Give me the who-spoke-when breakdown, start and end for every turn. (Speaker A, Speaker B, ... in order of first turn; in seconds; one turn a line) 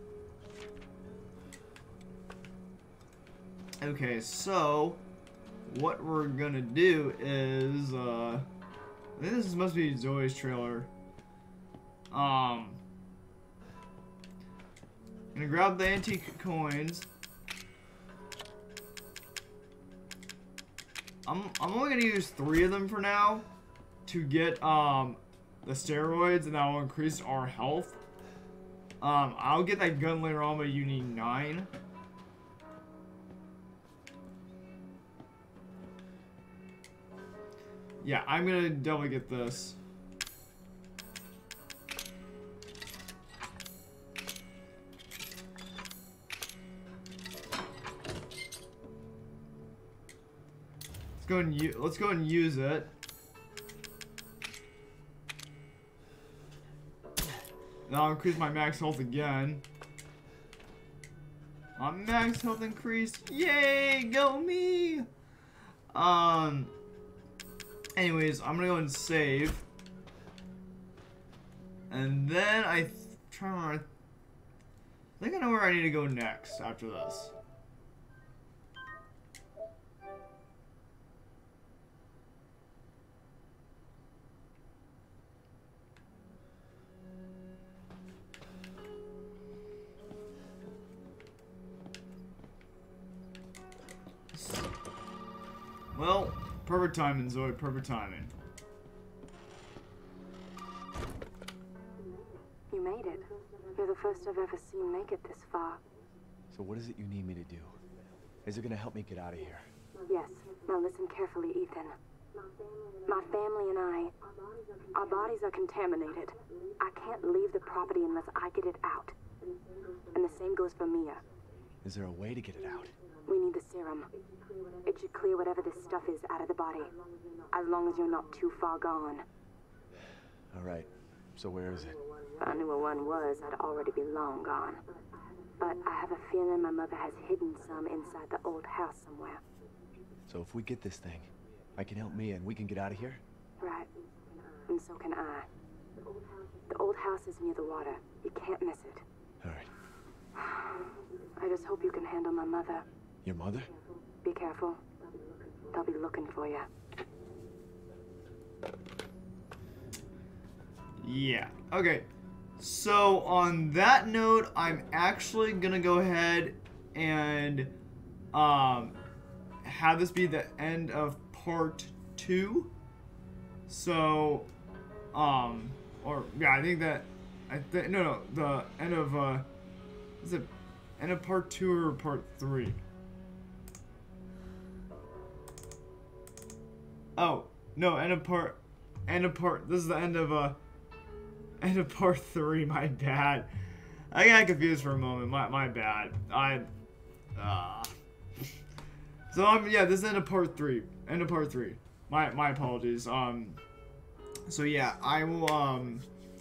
Speaker A: 3.8-5.0
Speaker A: 5.7-8.5
Speaker A: 9.2-10.9
Speaker A: 12.1-12.8
Speaker A: 15.3-17.1
Speaker A: 21.2-23.4
Speaker A: 24.1-28.0
Speaker A: 29.0-31.7
Speaker A: 38.0-39.8
Speaker A: 51.2-52.9
Speaker A: 57.9-59.6
Speaker A: 61.8-65.1
Speaker A: 65.9-66.7
Speaker A: 68.0-69.7
Speaker A: 71.9-73.8
Speaker A: 75.2-77.3
Speaker A: 94.3-94.7
Speaker A: 95.9-98.3
Speaker B: 102.7-105.8
Speaker C: 106.5-107.8
Speaker C: 108.4-109.7
Speaker B: 110.1-111.9
Speaker B: 113.0-114.1
Speaker B: 114.9-119.1
Speaker B: 120.1-121.2
Speaker C: 121.8-122.9
Speaker B: 123.2-124.1
Speaker B: 124.8-126.9
Speaker B: 127.5-129.2
Speaker C: 130.5-132.0
Speaker B: 132.4-134.8
Speaker B: 135.6-139.4
Speaker C: 140.3-143.2
Speaker B: 143.6-143.9
Speaker B: 144.7-145.5
Speaker B: 146.7-149.0
Speaker C: 149.4-149.7
Speaker B: 150.4-152.8
Speaker C: 153.2-153.7
Speaker B: 154.2-154.8
Speaker B: 155.6-156.7
Speaker A: 161.0-162.1
Speaker A: 162.6-167.7
Speaker A: 168.3-169.0
Speaker A: 169.6-172.7
Speaker A: 173.7-174.5
Speaker A: 175.1-179.5
Speaker A: 180.2-182.8
Speaker A: 187.2-190.6
Speaker A: 191.6-193.5
Speaker A: 194.1-196.7
Speaker A: 197.3-197.9
Speaker A: 199.3-203.6
Speaker A: 204.5-206.1